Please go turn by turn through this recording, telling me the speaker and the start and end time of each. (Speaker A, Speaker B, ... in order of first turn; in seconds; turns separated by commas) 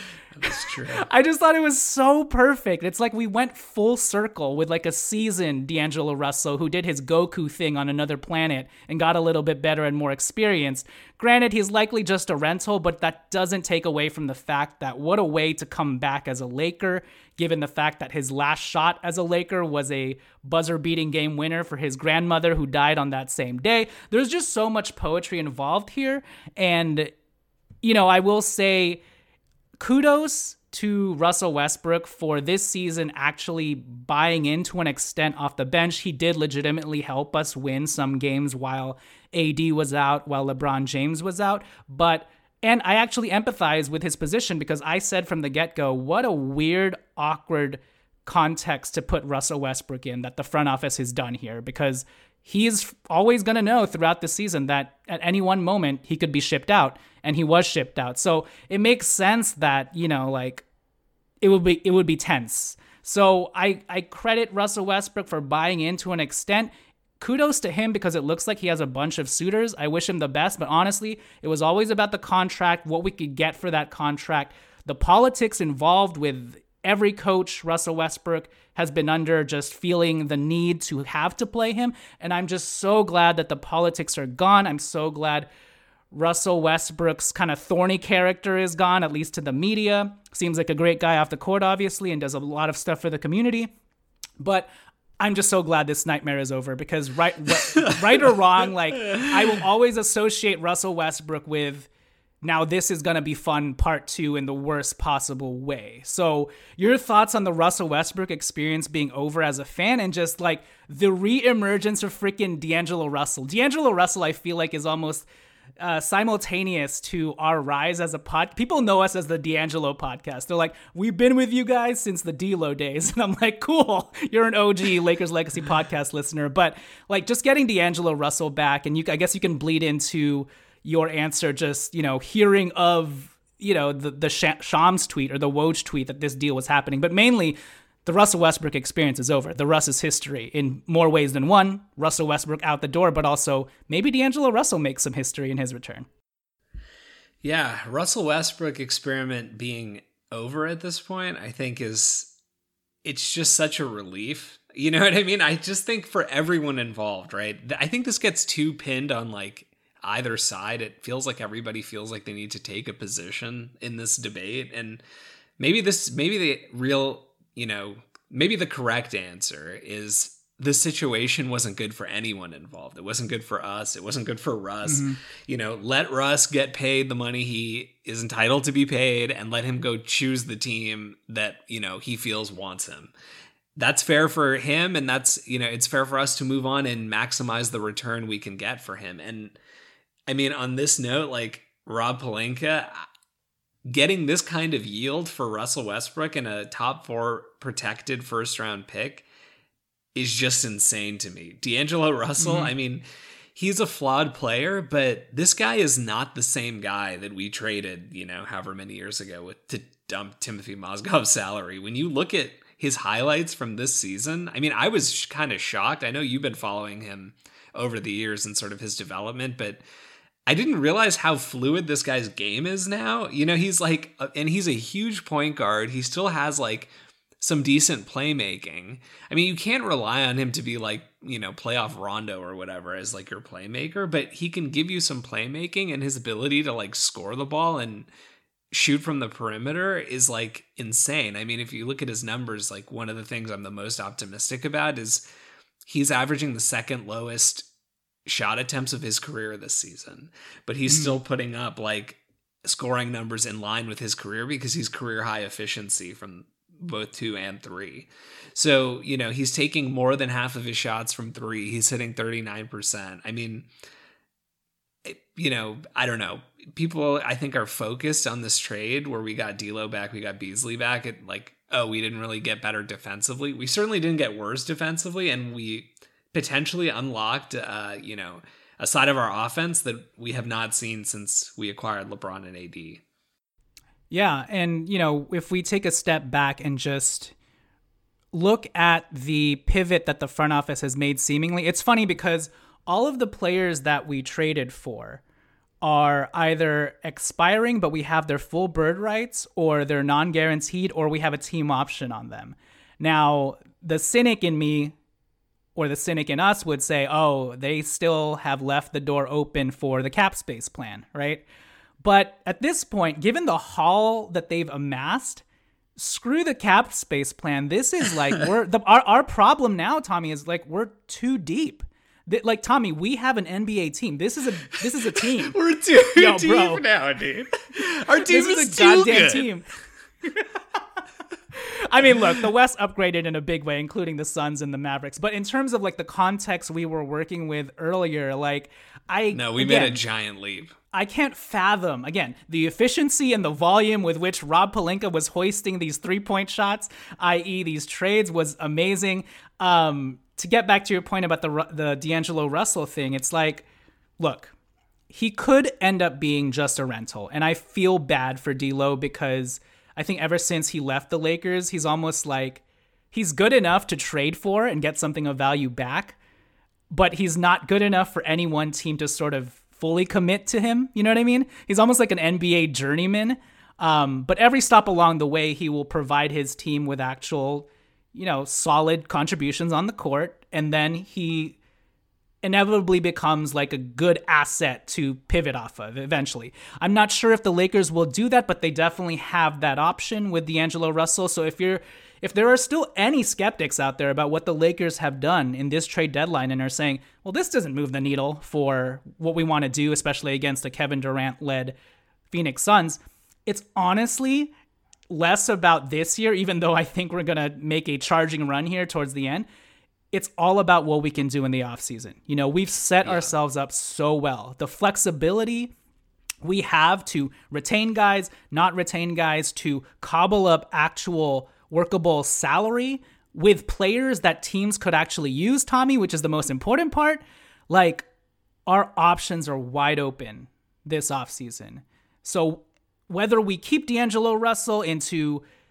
Speaker A: 0.3-1.1, Speaker B: 0.5-27.1, Speaker B: 27.8-29.0, Speaker B: 29.8-60.6, Speaker B: 61.4-85.5, Speaker B: 86.1-93.7, Speaker B: 94.4-94.7, Speaker B: 95.2-101.9, Speaker A: 97.8-98.2, Speaker A: 99.1-99.6, Speaker B: 102.4-115.2, Speaker B: 115.8-146.1, Speaker A: 147.4-152.3, Speaker A: 153.0-165.0, Speaker A: 165.6-183.1, Speaker B: 174.8-175.2, Speaker A: 183.8-189.6, Speaker A: 190.3-193.0, Speaker A: 193.8-199.2, Speaker A: 200.1-203.0, Speaker B: 202.4-202.7, Speaker A: 203.5-219.8, Speaker A: 220.4-238.1, Speaker A: 238.7-245.2, Speaker A: 245.8-247.7, Speaker A: 248.2-263.7, Speaker B: 250.9-251.2, Speaker A: 265.0-283.0, Speaker B: 284.1-287.3, Speaker B: 288.3-295.2, Speaker B: 295.8-304.9, Speaker B: 305.8-311.4, Speaker B: 312.0-315.4, Speaker B: 316.0-325.6, Speaker A: 325.0-329.5, Speaker B: 326.1-326.8, Speaker B: 328.2-329.7, Speaker B: 330.2-330.5, Speaker B: 331.5-340.0, Speaker A: 339.3-340.7, Speaker B: 340.9-353.6, Speaker B: 354.2-354.5, Speaker B: 355.1-366.2, Speaker B: 366.9-381.6, Speaker B: 382.4-401.7, Speaker B: 402.3-404.5, Speaker B: 405.1-409.5, Speaker B: 410.1-415.7, Speaker A: 413.0-413.3, Speaker B: 416.4-428.1, Speaker B: 428.7-435.4